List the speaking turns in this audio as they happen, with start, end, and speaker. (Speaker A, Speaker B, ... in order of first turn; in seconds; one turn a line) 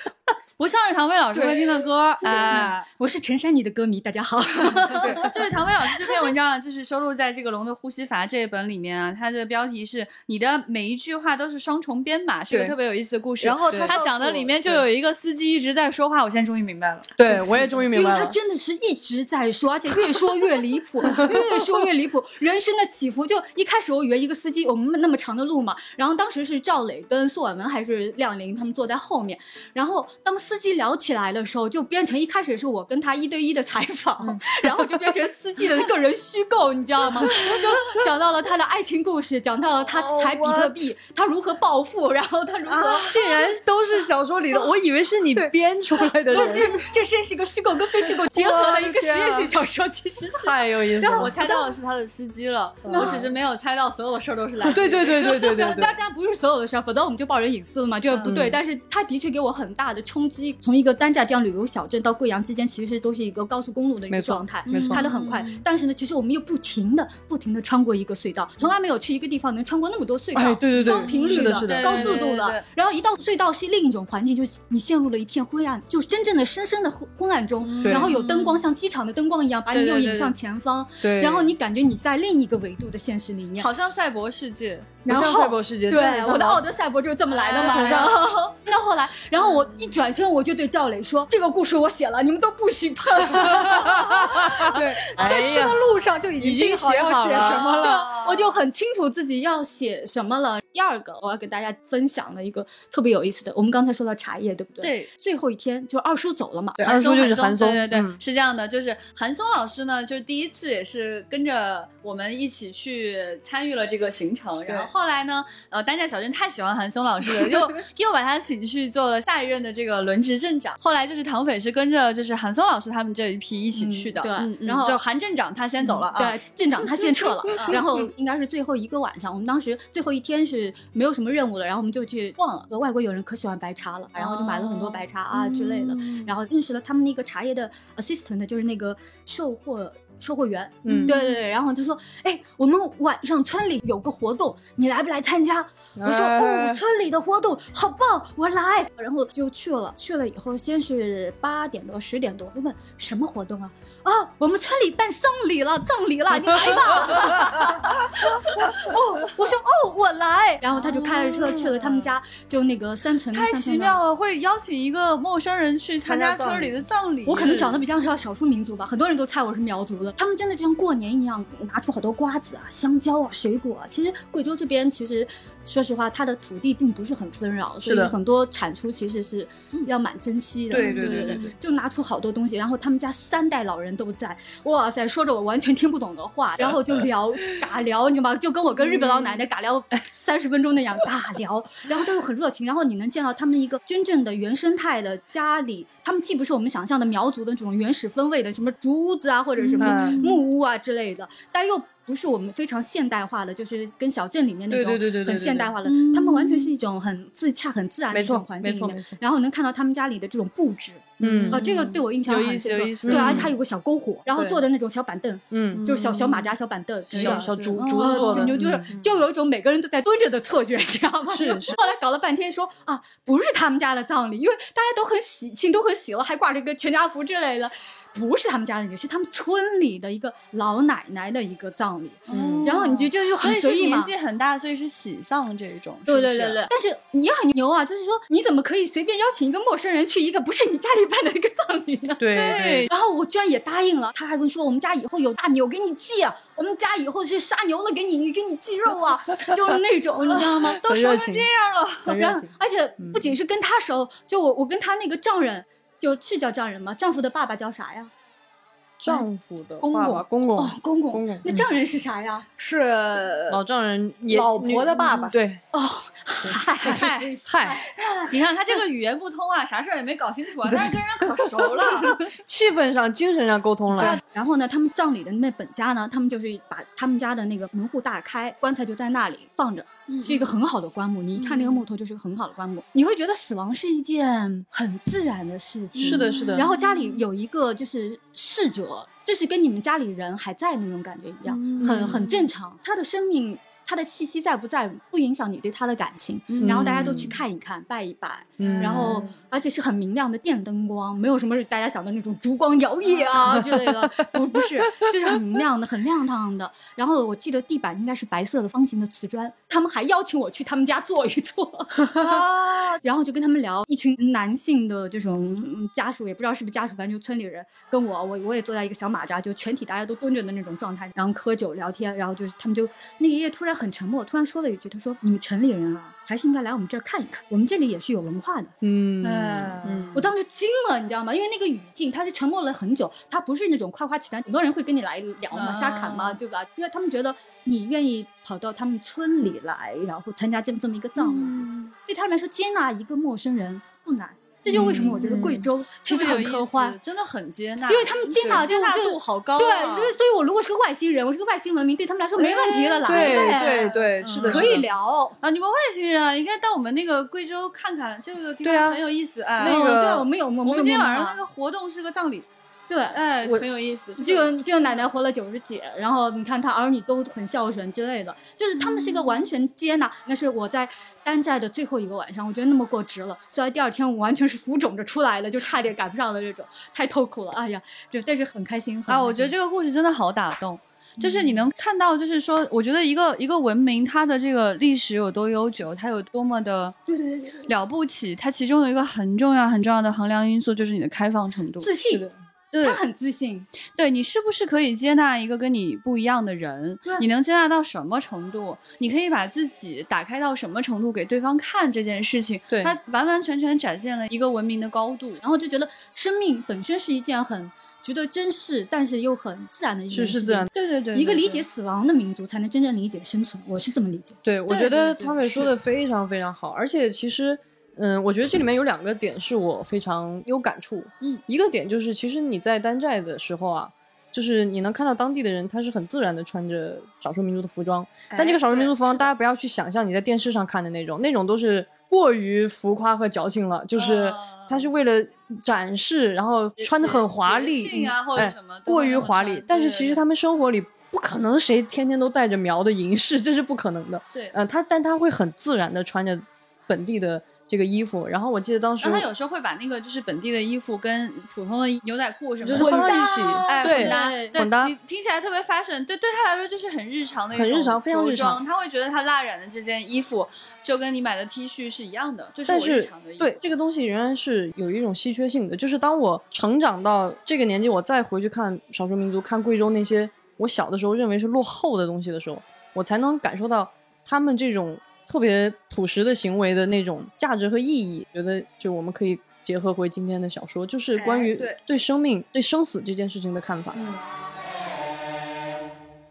Speaker A: 0.6-2.9
Speaker B: 1.3-1.8
Speaker C: 2.2-5.4
Speaker A: 4.6-17.1
Speaker B: 13.4-14.8
Speaker D: 13.7-13.9
Speaker D: 17.2-18.4
Speaker C: 17.2-43.4
Speaker D: 39.9-40.8
Speaker D: 42.7-46.8
Speaker C: 46.3-51.7
Speaker D: 48.3-49.5
Speaker D: 50.4-51.4
Speaker A: 51.1-55.3
Speaker D: 52.9-53.2
Speaker C: 52.9-53.2
Speaker D: 54.6-55.9
Speaker C: 55.1-83.7
Speaker A: 58.1-58.4
Speaker D: 58.2-58.6
Speaker D: 64.1-65.0
Speaker A: 64.7-65.6
Speaker D: 70.3-72.2
Speaker A: 70.8-72.6
Speaker A: 77.6-78.6
Speaker D: 77.8-78.2
Speaker A: 79.7-80.3
Speaker D: 81.0-81.5
Speaker A: 83.6-84.9
Speaker C: 85.0-94.8
Speaker D: 85.1-86.6
Speaker A: 87.3-88.3
Speaker D: 87.5-88.2
Speaker D: 93.3-95.8
Speaker B: 94.6-98.1
Speaker D: 96.4-97.7
Speaker C: 97.1-107.3
Speaker A: 97.3-98.5
Speaker A: 104.8-105.1
Speaker D: 106.8-108.2
Speaker A: 106.8-126.4
Speaker C: 123.8-125.0
Speaker C: 125.9-164.0
Speaker A: 127.5-127.8
Speaker A: 134.2-136.3
Speaker D: 140.8-141.1
Speaker A: 140.9-141.3
Speaker D: 146.0-146.8
Speaker A: 160.8-162.0
Speaker A: 163.3-167.8
Speaker C: 166.0-234.1
Speaker D: 177.8-178.1
Speaker D: 180.7-181.5
Speaker A: 180.8-181.5
Speaker A: 199.6-200.4
Speaker D: 199.8-200.2
Speaker D: 204.7-205.7
Speaker A: 205.8-206.7
Speaker D: 208.1-209.2
Speaker D: 211.2-211.6
Speaker A: 211.3-213.5
Speaker D: 213.1-213.5
Speaker D: 214.3-214.6
Speaker D: 215.5-215.9
Speaker A: 215.7-216.5
Speaker A: 217.1-218.6
Speaker D: 217.1-218.9
Speaker D: 221.3-221.8
Speaker A: 232.3-236.7
Speaker D: 232.3-232.7
Speaker C: 236.1-250.8
Speaker D: 242.2-242.9
Speaker A: 242.3-242.9
Speaker A: 250.3-252.2
Speaker D: 250.8-251.4
Speaker D: 252.1-253.3
Speaker C: 252.1-258.1
Speaker D: 259.0-261.6
Speaker C: 259.8-262.4
Speaker B: 262.6-263.6
Speaker D: 263.5-265.6
Speaker B: 264.3-265.4
Speaker C: 265.0-268.4
Speaker D: 266.4-267.9
Speaker A: 266.8-267.4
Speaker A: 268.3-272.2
Speaker D: 270.6-274.2
Speaker C: 273.9-328.7
Speaker A: 280.1-280.5
Speaker A: 281.4-281.8
Speaker D: 286.0-286.7
Speaker A: 286.0-287.2
Speaker A: 291.5-292.5
Speaker D: 291.8-292.2
Speaker A: 296.5-297.1
Speaker D: 296.6-297.4
Speaker D: 298.6-299.3
Speaker A: 298.6-299.4
Speaker A: 303.1-303.8
Speaker D: 303.5-303.8
Speaker A: 312.2-313.0
Speaker D: 328.8-329.9
Speaker A: 329.2-330.1
Speaker B: 329.9-330.3
Speaker C: 330.1-347.0
Speaker A: 335.5-336.4
Speaker A: 341.2-341.9
Speaker A: 344.7-350.1
Speaker D: 344.7-345.5
Speaker C: 347.9-355.4
Speaker A: 352.4-353.5
Speaker D: 353.0-354.9
Speaker A: 354.2-354.8
Speaker A: 355.4-359.9
Speaker D: 358.6-359.0
Speaker D: 359.6-360.3
Speaker C: 359.6-361.4
Speaker A: 360.6-362.5
Speaker C: 362.9-363.2
Speaker A: 363.1-364.6
Speaker C: 364.2-379.5
Speaker A: 368.8-369.3
Speaker A: 379.1-387.0
Speaker C: 381.2-381.6
Speaker C: 387.1-387.6
Speaker A: 387.6-391.9
Speaker C: 391.8-393.7
Speaker A: 393.9-405.4
Speaker D: 402.7-403.0
Speaker C: 405.4-414.4
Speaker D: 410.1-410.7
Speaker A: 410.7-411.6
Speaker D: 414.4-449.3
Speaker A: 414.7-415.7
Speaker C: 428.3-428.6
Speaker A: 428.4-429.2
Speaker A: 433.9-434.9
Speaker A: 436.8-440.2
Speaker A: 449.0-463.6
Speaker D: 452.6-454.9
Speaker C: 452.7-454.5
Speaker D: 457.5-458.6
Speaker D: 462.7-484.0
Speaker A: 481.1-481.8